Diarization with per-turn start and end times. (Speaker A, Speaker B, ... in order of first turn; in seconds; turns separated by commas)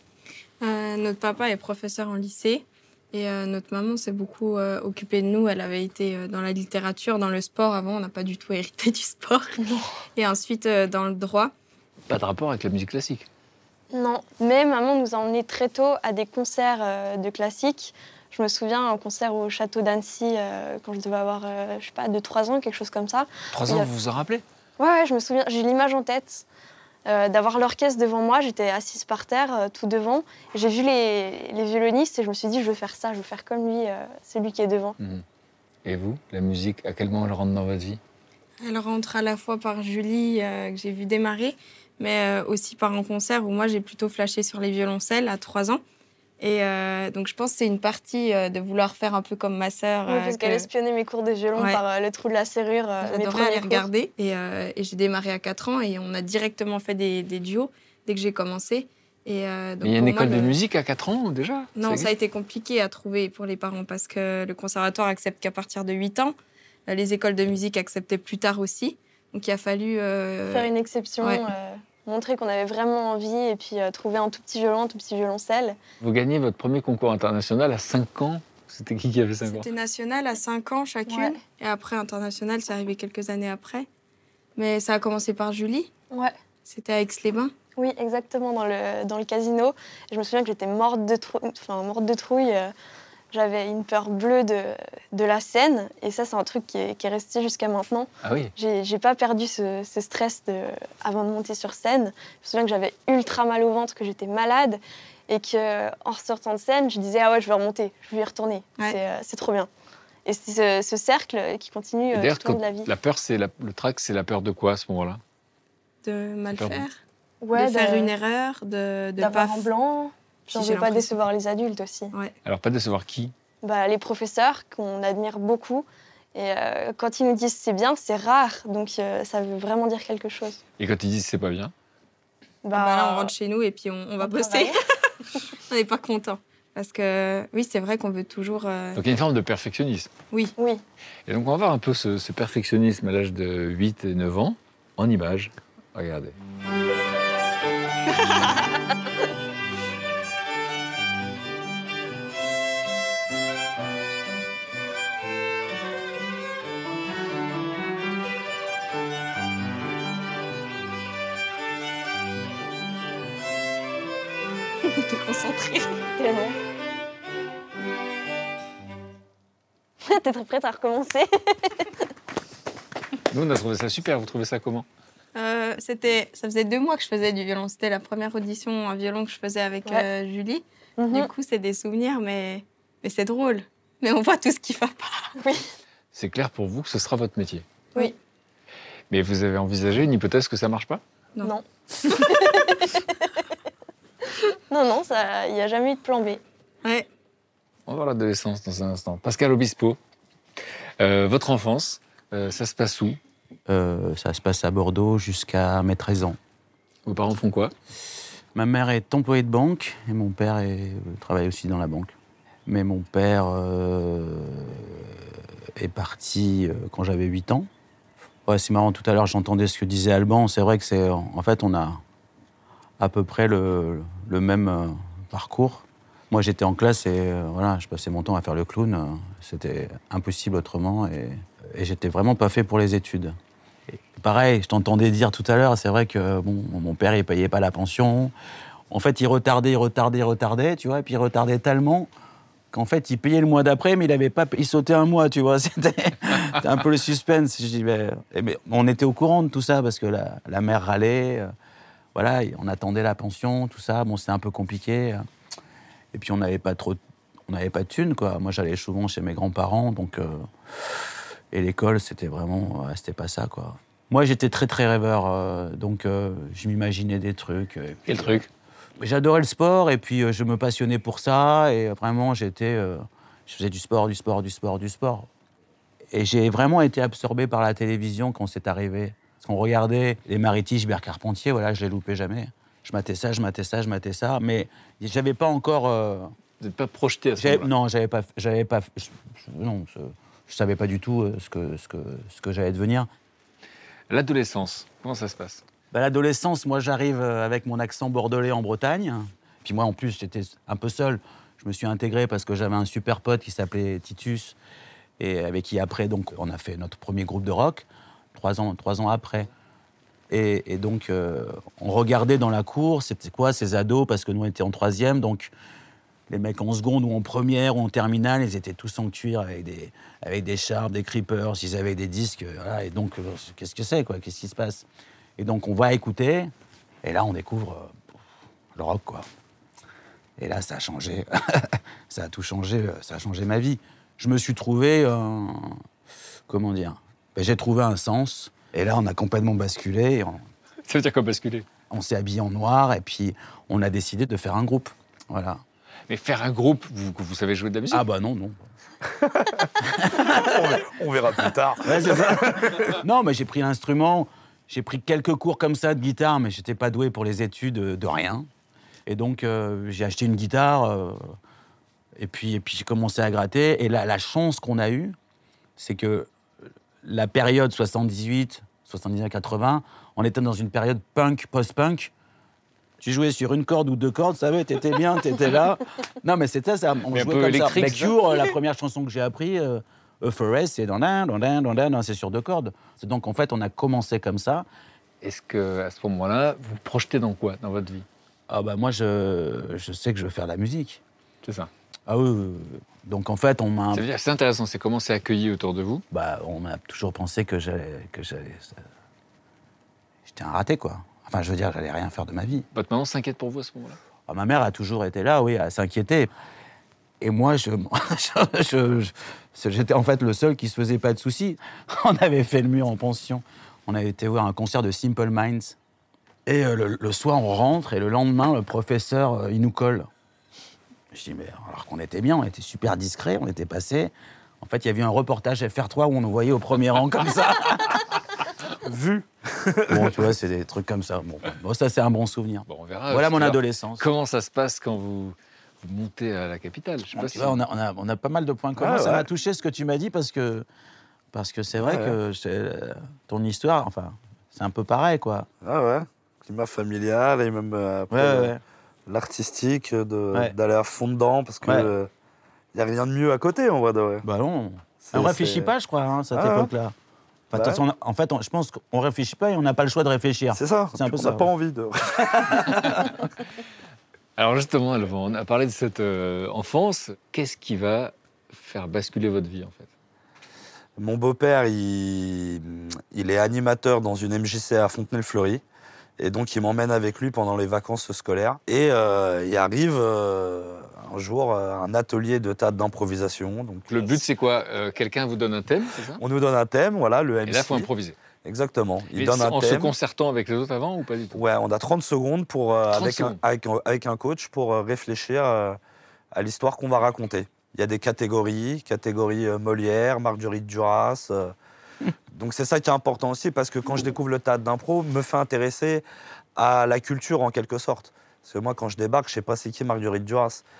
Speaker A: 0.6-9.6, Speaker B: 9.6-9.8, Speaker A: 10.2-11.5, Speaker C: 12.1-13.3, Speaker B: 13.9-23.9, Speaker C: 23.5-24.4, Speaker B: 24.8-26.4, Speaker B: 27.1-35.0, Speaker C: 35.0-35.2, Speaker C: 35.9-38.0, Speaker A: 38.6-45.8, Speaker A: 46.4-50.7, Speaker B: 50.1-53.9, Speaker A: 51.6-51.8, Speaker A: 53.0-60.6, Speaker C: 59.8-62.1, Speaker A: 61.8-66.3, Speaker A: 66.9-70.7, Speaker B: 70.5-75.8, Speaker C: 76.0-79.7, Speaker A: 79.5-83.9, Speaker B: 81.1-81.4, Speaker A: 84.6-85.9, Speaker A: 86.7-87.5, Speaker B: 87.8-92.7, Speaker B: 93.3-109.7, Speaker C: 98.2-98.5, Speaker B: 110.3-112.9, Speaker C: 112.1-115.2, Speaker A: 116.0-117.0, Speaker C: 116.5-116.8, Speaker B: 117.4-118.1, Speaker A: 117.5-119.7, Speaker B: 119.2-122.1, Speaker A: 120.5-121.2, Speaker C: 122.5-123.3, Speaker B: 123.6-130.6, Speaker C: 130.8-131.7, Speaker B: 132.6-133.3, Speaker A: 132.7-134.9, Speaker B: 134.2-134.8, Speaker A: 135.7-139.0, Speaker C: 138.9-140.1, Speaker B: 140.6-140.8, Speaker C: 141.3-146.3, Speaker A: 164.8-166.1, Speaker B: 166.2-166.6, Speaker B: 170.0-171.9, Speaker C: 173.3-174.9, Speaker A: 175.3-185.3, Speaker B: 181.0-181.3, Speaker B: 185.4-185.7, Speaker C: 186.1-187.7, Speaker C: 189.1-191.0, Speaker B: 191.4-193.2, Speaker A: 192.1-192.4, Speaker B: 194.7-196.4, Speaker C: 197.9-200.0, Speaker C: 201.0-203.2, Speaker D: 203.7-206.4, Speaker C: 207.1-207.7, Speaker D: 208.6-212.1, Speaker D: 212.7-215.2, Speaker D: 215.8-217.7, Speaker D: 218.5-222.0, Speaker D: 223.0-233.4, Speaker D: 233.9-238.3, Speaker D: 238.9-242.1, Speaker D: 242.7-251.5, Speaker D: 252.1-255.3, Speaker D: 256.1-268.5, Speaker C: 268.1-268.5, Speaker D: 269.0-275.3, Speaker D: 276.1-286.3, Speaker C: 286.6-287.7, Speaker D: 287.4-293.1, Speaker C: 294.1-295.6, Speaker D: 295.9-304.6, Speaker D: 305.2-309.5, Speaker D: 310.3-315.5, Speaker D: 316.3-324.9, Speaker D: 325.4-326.5, Speaker D: 327.0-328.0, Speaker D: 328.8-329.3, Speaker D: 330.4-335.8, Speaker D: 336.5-340.4, Speaker C: 340.9-341.6, Speaker D: 341.9-345.6, Speaker C: 346.1-348.1, Speaker D: 347.9-348.6, Speaker E: 349.2-349.7, Speaker D: 349.8-350.8, Speaker E: 350.2-353.0, Speaker D: 351.8-358.5, Speaker D: 359.1-361.3, Speaker D: 362.2-365.1, Speaker D: 365.8-366.3, Speaker D: 367.0-372.1, Speaker D: 373.0-384.6, Speaker C: 377.1-378.4, Speaker C: 385.2-388.1, Speaker D: 388.5-391.0, Speaker C: 391.4-391.7, Speaker D: 392.1-394.1, Speaker C: 393.9-396.0, Speaker D: 396.1-398.8, Speaker D: 400.3-402.7, Speaker C: 402.7-404.0, Speaker D: 404.3-406.3, Speaker D: 407.2-415.8, Speaker D: 416.5-420.1, Speaker D: 421.1-428.1, Speaker E: 428.8-430.2, Speaker D: 429.9-434.1, Speaker C: 432.7-437.6, Speaker D: 437.1-440.6, Speaker E: 438.8-439.3, Speaker D: 441.3-445.5, Speaker E: 441.8-442.1, Speaker E: 445.6-448.6, Speaker D: 448.1-448.6, Speaker E: 449.1-452.1, Speaker D: 451.6-451.9, Speaker E: 452.7-454.2, Speaker D: 454.2-456.9, Speaker E: 455.0-455.7, Speaker E: 456.3-456.7, Speaker D: 457.5-461.5, Speaker E: 457.5-457.8, Speaker E: 460.5-463.1, Speaker D: 462.4-462.7, Speaker C: 464.4-469.9, Speaker E: 471.0-475.6, Speaker E: 476.2-484.2, Speaker C: 483.9-486.2, Speaker E: 486.2-487.9, Speaker C: 487.4-488.1, Speaker E: 488.4-489.9, Speaker C: 489.1-491.4, Speaker E: 491.3-495.8, Speaker C: 492.9-493.4, Speaker E: 496.3-501.5, Speaker E: 502.3-506.0, Speaker E: 506.6-510.6